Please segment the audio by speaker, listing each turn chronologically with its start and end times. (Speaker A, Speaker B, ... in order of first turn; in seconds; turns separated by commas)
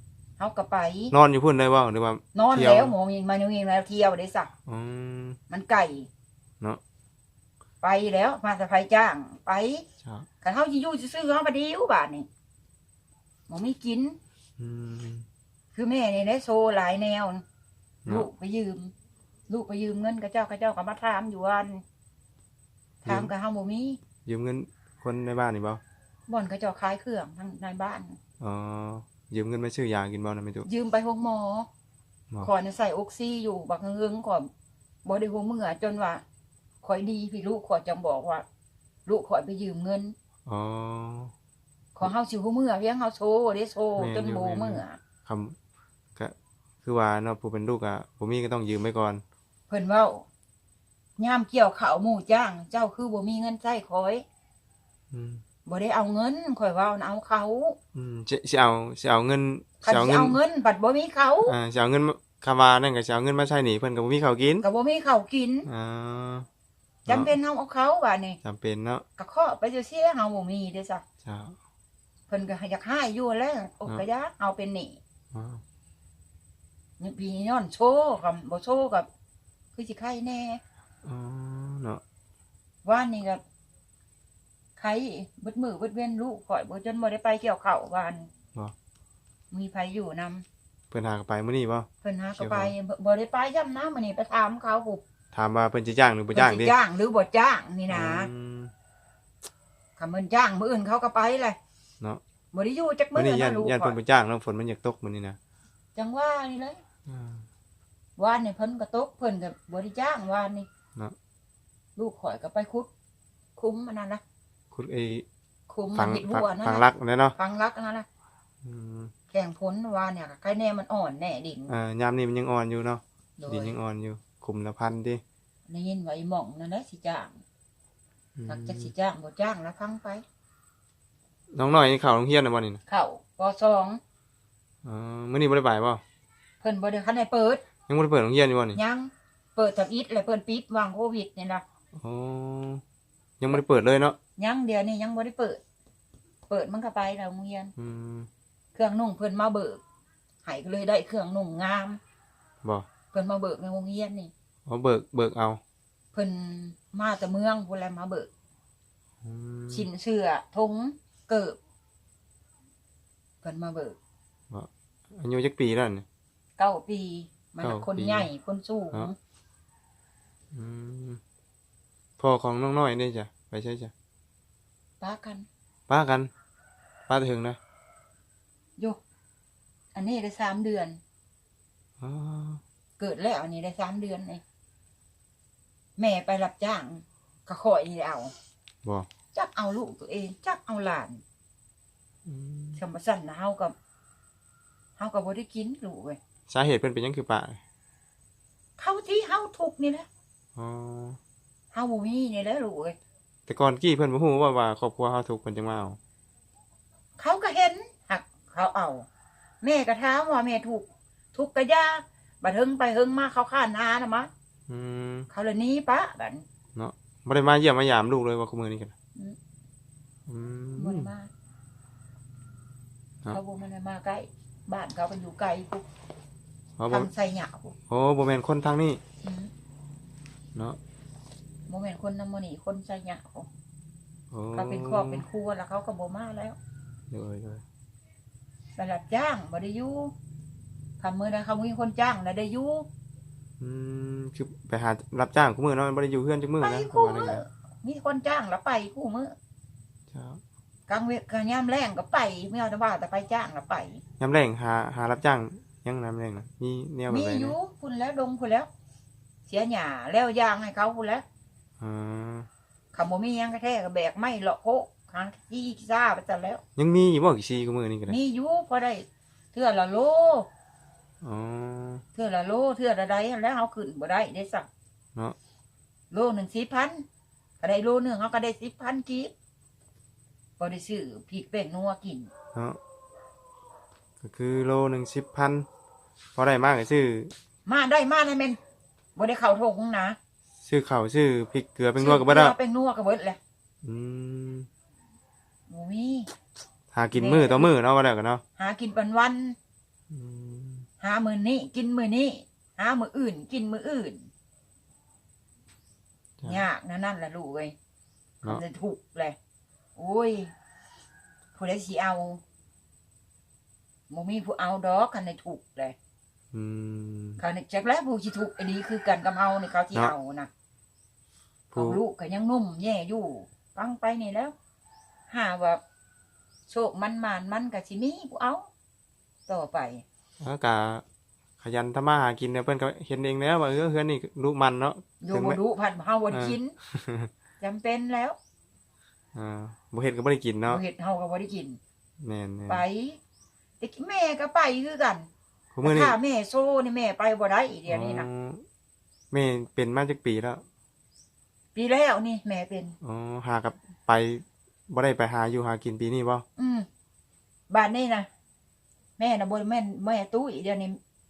Speaker A: 0.4-1.1, Speaker B: 1.1-3.0, Speaker A: 2.3-4.5, Speaker B: 4.7-5.4, Speaker A: 5.5-6.1, Speaker A: 7.8-9.9, Speaker A: 10.4-12.3, Speaker A: 13.5-14.2, Speaker B: 14.6-15.3, Speaker A: 15.8-17.4, Speaker A: 18.1-18.9, Speaker A: 19.5-21.8, Speaker A: 23.0-24.0, Speaker B: 23.1-23.3, Speaker B: 24.2-25.8, Speaker A: 26.3-28.2, Speaker B: 28.4-30.7, Speaker A: 30.6-31.7, Speaker A: 32.4-34.5, Speaker A: 35.0-36.2, Speaker A: 36.8-38.5, Speaker A: 39.1-40.1, Speaker B: 40.5-41.3, Speaker A: 42.0-45.0, Speaker B: 44.0-45.6, Speaker B: 46.2-49.2, Speaker A: 49.7-50.3, Speaker A: 51.2-54.2, Speaker B: 55.1-55.4, Speaker A: 55.7-57.8, Speaker B: 57.9-60.4, Speaker A: 59.8-61.5, Speaker B: 61.5-64.7, Speaker A: 64.6-65.7, Speaker B: 65.7-66.5, Speaker B: 67.1-67.3, Speaker A: 67.1-68.4, Speaker B: 68.4-69.0, Speaker A: 69.2-71.0, Speaker B: 71.2-71.6, Speaker A: 72.3-75.0, Speaker B: 75.3-75.6, Speaker A: 77.0-79.1, Speaker A: 79.8-80.6, Speaker B: 81.0-82.0, Speaker A: 82.8-83.4, Speaker A: 84.8-88.3, Speaker A: 89.5-90.5, Speaker B: 90.9-92.7, Speaker A: 92.0-95.0, Speaker B: 95.3-96.8, Speaker A: 96.3-98.3, Speaker B: 97.9-98.7, Speaker A: 100.0-101.6, Speaker A: 102.5-104.0, Speaker B: 103.2-105.4, Speaker A: 106.0-106.8, Speaker B: 107.1-107.5, Speaker A: 108.2-110.7, Speaker A: 112.0-112.9, Speaker A: 113.6-114.2, Speaker B: 114.7-115.3, Speaker A: 115.7-118.1, Speaker B: 116.0-117.4, Speaker B: 118.6-119.1, Speaker A: 119.3-121.7, Speaker B: 121.7-125.2, Speaker A: 123.4-123.8, Speaker A: 125.7-127.4, Speaker B: 128.4-128.9, Speaker A: 128.5-130.2, Speaker B: 131.5-132.8, Speaker A: 132.9-134.0, Speaker B: 134.8-136.0, Speaker A: 136.6-137.6, Speaker B: 137.9-138.8, Speaker A: 138.8-141.6, Speaker B: 141.9-142.8, Speaker B: 143.4-144.2, Speaker A: 144.4-145.6, Speaker A: 146.5-147.7, Speaker B: 147.8-148.3, Speaker A: 148.8-149.8, Speaker A: 150.4-152.0, Speaker A: 153.1-154.3, Speaker B: 154.7-155.6, Speaker A: 156.1-158.3, Speaker B: 159.2-159.9, Speaker A: 159.7-161.6, Speaker A: 163.4-164.0, Speaker B: 164.5-166.1, Speaker A: 166.6-169.1, Speaker B: 167.6-168.3, Speaker B: 170.5-171.2, Speaker B: 172.2-173.9, Speaker A: 175.0-175.5, Speaker B: 175.9-176.3, Speaker B: 177.1-177.6, Speaker A: 179.9-181.0, Speaker B: 182.0-182.6, Speaker A: 183.0-184.4, Speaker A: 186.0-188.3, Speaker A: 189.3-191.2, Speaker B: 192.3-192.8, Speaker A: 192.8-193.8, Speaker A: 195.0-196.2, Speaker B: 196.5-197.6, Speaker A: 198.8-200.1, Speaker B: 200.6-201.2, Speaker A: 201.7-203.0, Speaker B: 203.5-206.0, Speaker A: 207.2-209.1, Speaker A: 209.6-214.3, Speaker B: 214.7-215.3, Speaker A: 215.3-216.4, Speaker B: 216.8-218.9, Speaker B: 220.3-221.1, Speaker A: 220.8-221.3, Speaker A: 223.3-225.9, Speaker B: 226.8-227.1, Speaker A: 226.9-227.7, Speaker B: 227.9-229.0, Speaker A: 229.2-229.5, Speaker A: 231.7-233.5, Speaker B: 234.3-235.2, Speaker A: 234.5-236.6, Speaker B: 237.1-237.6, Speaker A: 238.8-240.1, Speaker A: 241.0-242.9, Speaker B: 243.6-247.4, Speaker A: 246.6-249.3, Speaker B: 250.1-250.4, Speaker A: 250.9-254.0, Speaker B: 254.2-257.6, Speaker A: 257.1-258.7, Speaker A: 259.5-261.2, Speaker B: 261.8-262.5, Speaker A: 262.9-266.6, Speaker B: 266.8-268.2, Speaker A: 268.1-270.5, Speaker B: 271.2-272.0, Speaker A: 272.2-274.7, Speaker A: 276.1-277.1, Speaker A: 277.6-279.3, Speaker A: 280.6-282.3, Speaker B: 284.2-285.7, Speaker B: 286.4-287.3, Speaker A: 287.7-288.6, Speaker A: 289.2-290.2, Speaker B: 290.7-292.6, Speaker A: 292.0-293.4, Speaker B: 293.8-294.7, Speaker A: 295.7-296.3, Speaker B: 296.9-298.4, Speaker A: 297.2-297.7, Speaker A: 298.6-299.6, Speaker B: 300.1-300.9, Speaker A: 301.0-304.3, Speaker B: 306.4-306.6, Speaker A: 306.4-307.8, Speaker A: 308.4-309.4, Speaker A: 310.0-310.5, Speaker A: 311.6-312.4, Speaker A: 314.1-316.0, Speaker B: 316.5-317.4, Speaker A: 317.4-320.5, Speaker B: 321.7-322.0, Speaker A: 321.8-324.5, Speaker A: 325.3-325.8, Speaker A: 326.7-328.7, Speaker A: 329.5-330.0, Speaker B: 330.4-331.0, Speaker B: 331.6-335.6, Speaker A: 335.2-336.7, Speaker B: 336.3-337.3, Speaker A: 337.6-338.4, Speaker B: 339.4-340.8, Speaker A: 340.7-341.8, Speaker B: 342.2-342.8, Speaker A: 342.7-343.2, Speaker A: 343.8-345.3, Speaker B: 345.7-346.2, Speaker A: 345.8-348.3, Speaker B: 347.9-348.6, Speaker B: 349.3-350.6, Speaker A: 351.8-353.0, Speaker B: 353.0-356.4, Speaker A: 356.6-356.9, Speaker A: 357.7-358.3, Speaker A: 359.2-361.0